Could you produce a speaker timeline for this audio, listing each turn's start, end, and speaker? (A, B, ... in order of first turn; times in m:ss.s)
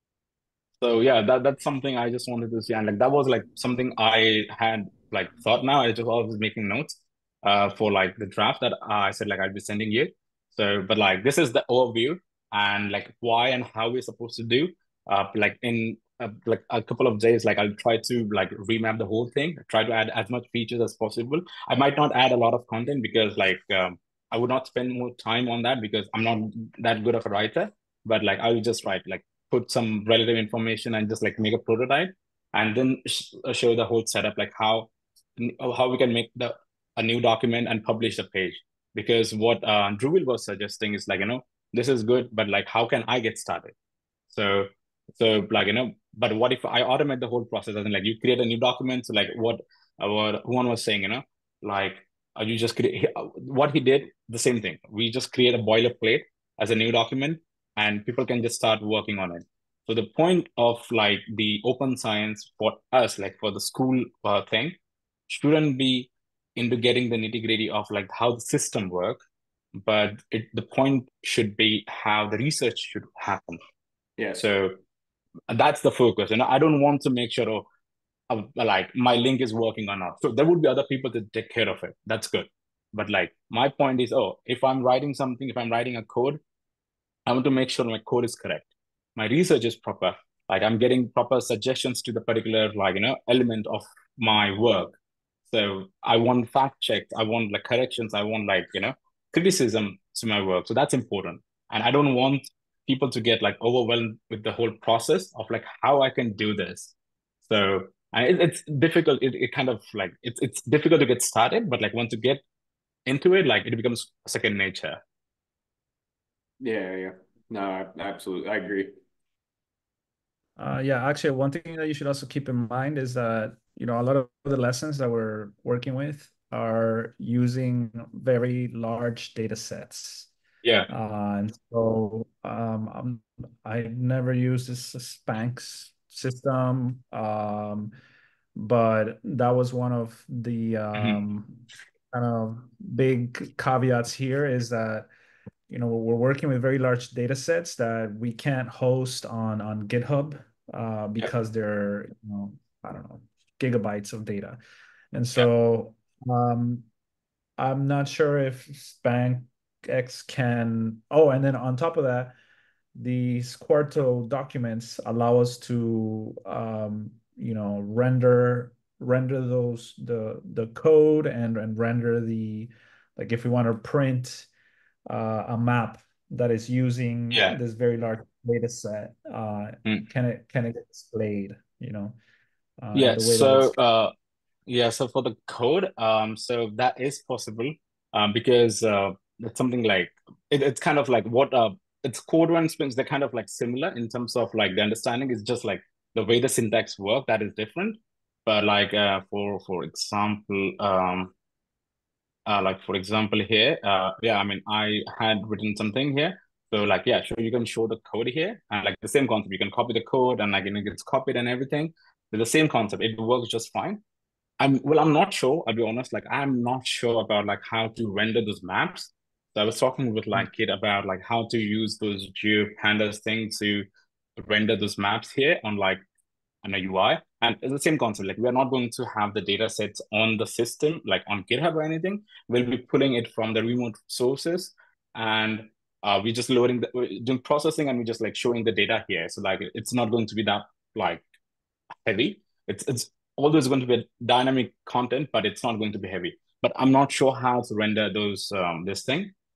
0:00.8-0:43.7 A
0:44.3-1:04.8 A
1:05.3-1:09.2 A
1:09.8-1:13.6 A
1:14.2-1:14.4 B
1:14.4-1:14.8 A
1:15.5-1:17.7 A
1:18.3-1:26.4 A
1:27.3-1:35.0 A
1:35.5-1:46.9 A
1:47.5-1:52.4 A
1:53.1-1:55.0 A
1:56.6-1:58.9 B
2:00.6-2:10.3 C
2:10.6-2:10.9 A
2:10.9-2:17.9 C
2:18.6-2:25.1 C
2:25.7-2:34.6 C
2:35.1-2:36.9 C
2:37.6-2:42.4 C
2:43.0-2:54.5 C
2:55.1-3:02.2 C
2:57.3-2:57.6 A
3:02.8-3:03.7 C
3:03.0-3:04.1 A
3:04.7-3:21.3 A
3:22.5-3:34.0 A
3:34.6-3:43.8 A
3:44.4-3:46.0 A
3:46.6-4:01.2 A
4:02.0-4:09.3 A